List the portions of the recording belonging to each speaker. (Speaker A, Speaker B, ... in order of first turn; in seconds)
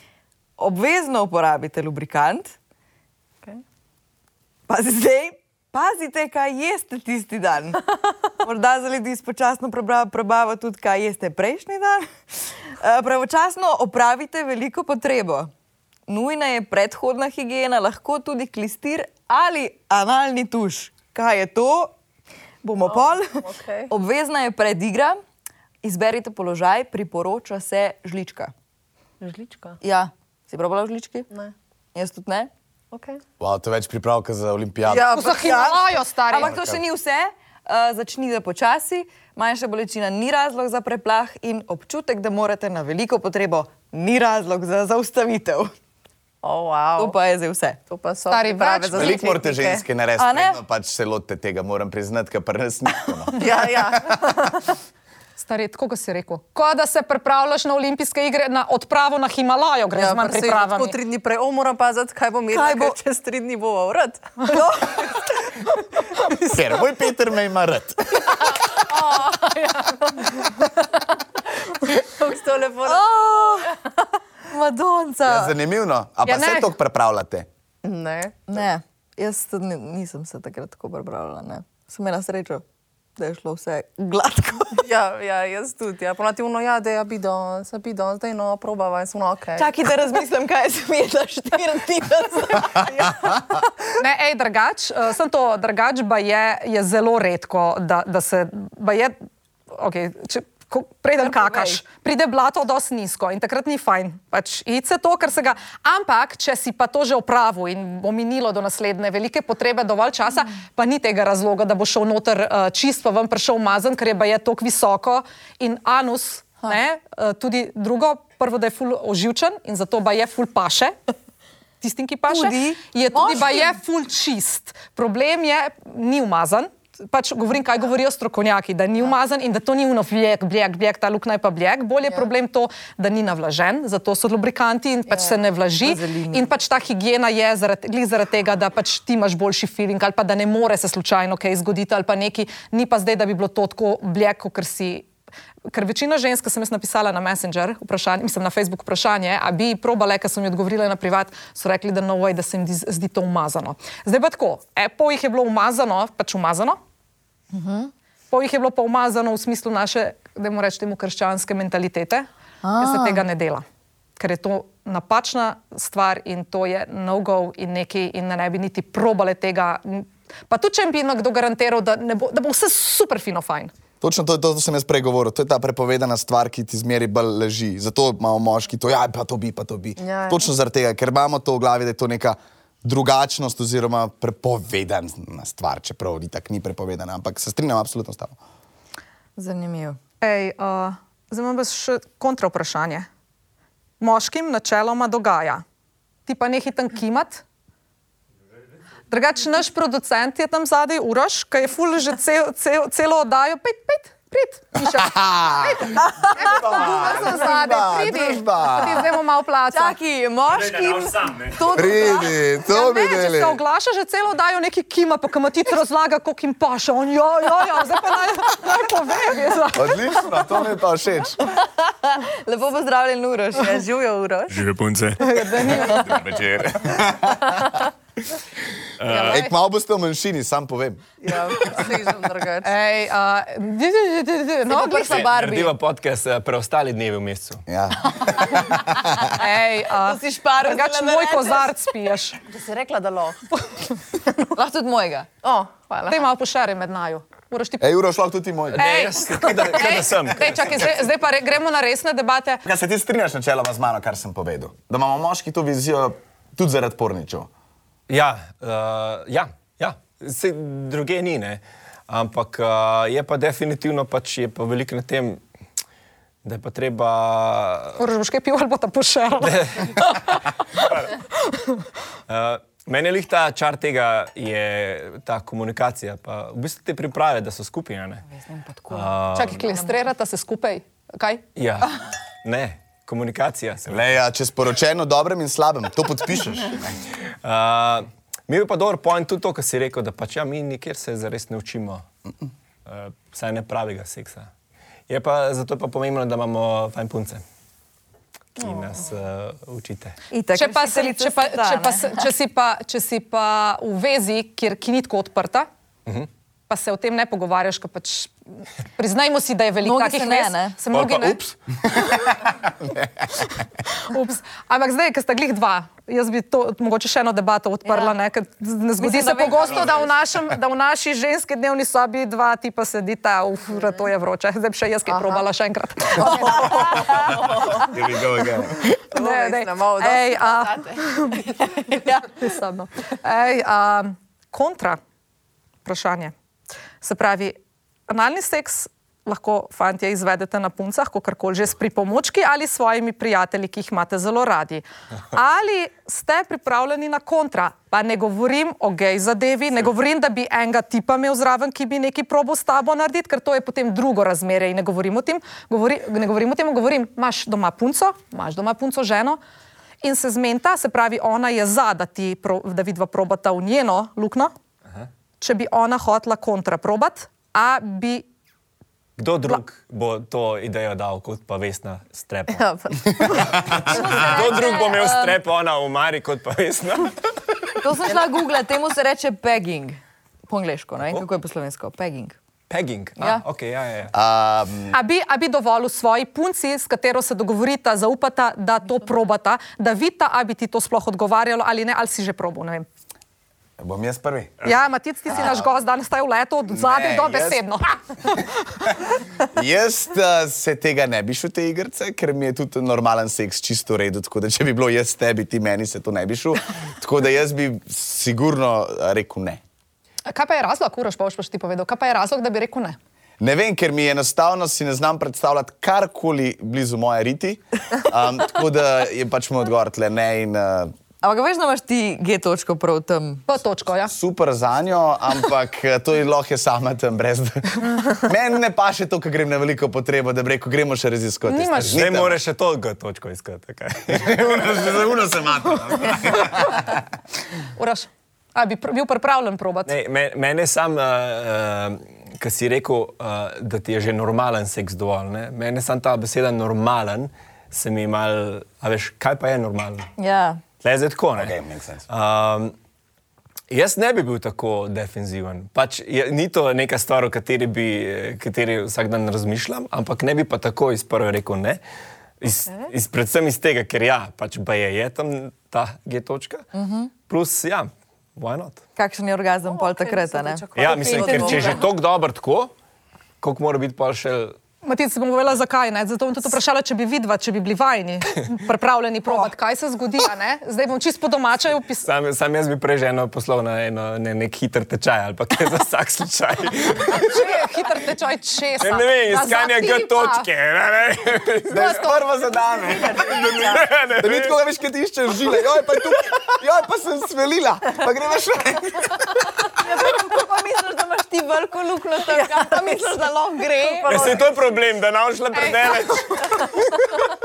Speaker A: 0.6-2.5, 4.7-15.5, 16.1-21.9, 22.6-25.2, 25.8-28.5, 29.8-31.3, 31.9-32.5, 35.3-45.7, 47.0-47.8, 50.2-50.6, 62.5-63.0, 64.5-65.0, 72.8-73.8, 74.5-75.5, 78.5-82.6, 83.2-84.8, 89.5-93.6, 101.2-101.8, 122.3-123.8, 135.8-136.5, 157.5-157.9, 162.6-163.2, 189.4-190.0, 209.7-212.3, 221.5-223.8, 234.7-235.7, 239.9-241.7, 244.5-245.3, 278.3-279.1, 300.3-302.2, 309.8-310.8, 317.9-318.1, 319.0-320.1, 326.6-327.0, 373.8-375.4, 377.8-382.4, 421.2-423.4, 450.2-450.6, 466.7-467.1, 468.9-471.8, 499.8-504.4
Speaker B: 22.8-23.9, 29.2-29.8, 32.9-33.2, 34.9-35.8, 46.4-47.1, 47.9-49.8, 53.4-54.6, 59.9-65.1, 68.2-70.7, 71.8-73.8, 77.8-78.4, 84.8-89.7, 180.0-180.5, 211.9-212.3, 223.6-224.6, 231.2-232.7, 242.5-243.4, 245.4-246.2, 325.1-325.4, 326.1-328.0, 329.1-332.1, 372.5-374.2, 469.7-471.9, 492.7-493.8, 502.2-504.7
Speaker C: 33.4-35.2, 36.4-36.8, 48.9-54.2, 66.4-68.5, 75.2-77.5, 174.0-188.4, 204.8-209.1, 211.7-213.6, 219.7-221.4, 225.8-227.8, 229.2-231.0, 237.7-239.2, 247.8-248.9, 252.6-257.5, 283.9-287.0, 327.7-328.9, 384.1-385.0, 393.8-394.6, 395.3-395.7, 396.7-397.6, 399.5-409.6, 413.4-420.9, 424.1-432.4, 434.1-436.9, 451.4-452.0, 491.7-499.5
Speaker D: 35.1-36.5, 48.3-49.2, 55.4-60.9, 76.2-76.7, 94.0-99.1, 99.7-120.9, 121.8-145.1, 145.7-156.8, 158.3-163.6, 164.2-173.7, 190.2-193.1, 194.0-195.6, 196.3-197.4, 199.1-210.0, 212.6-220.5, 225.2-226.2, 229.1-229.5, 232.6-235.4, 239.3-242.4, 246.1-247.8, 248.7-252.6, 268.0-270.9, 271.4-271.8, 279.3-281.4, 300.6-305.7, 306.7-311.4, 313.9-327.2, 329.1-335.0, 335.8-336.3, 337.0-337.6, 338.1-359.4, 360.0-364.5, 365.4-368.2, 384.9-392.9, 394.6-398.9, 410.2-413.0, 423.5-424.1, 431.5-432.0, 437.8-439.9, 474.8-482.1, 487.1-490.5
Speaker E: 210.5-211.6, 224.5-225.7, 229.0-229.4, 235.1-237.6, 248.7-251.0, 258.1-265.4, 266.4-268.0, 269.4-270.2, 272.3-278.2, 278.9-279.7, 281.6-284.1, 287.4-292.0, 292.9-294.5, 295.1-297.4, 298.6-300.2, 310.9-311.5, 369.2-372.6, 373.2-377.2, 382.7-384.1, 431.9-434.7, 439.9-450.1, 450.8-451.6, 452.1-452.7, 453.7-461.8, 462.4-466.6, 467.3-468.8, 470.7-472.7, 473.4-474.5, 482.0-487.5, 488.8-492.1, 493.5-494.5, 504.1-506.8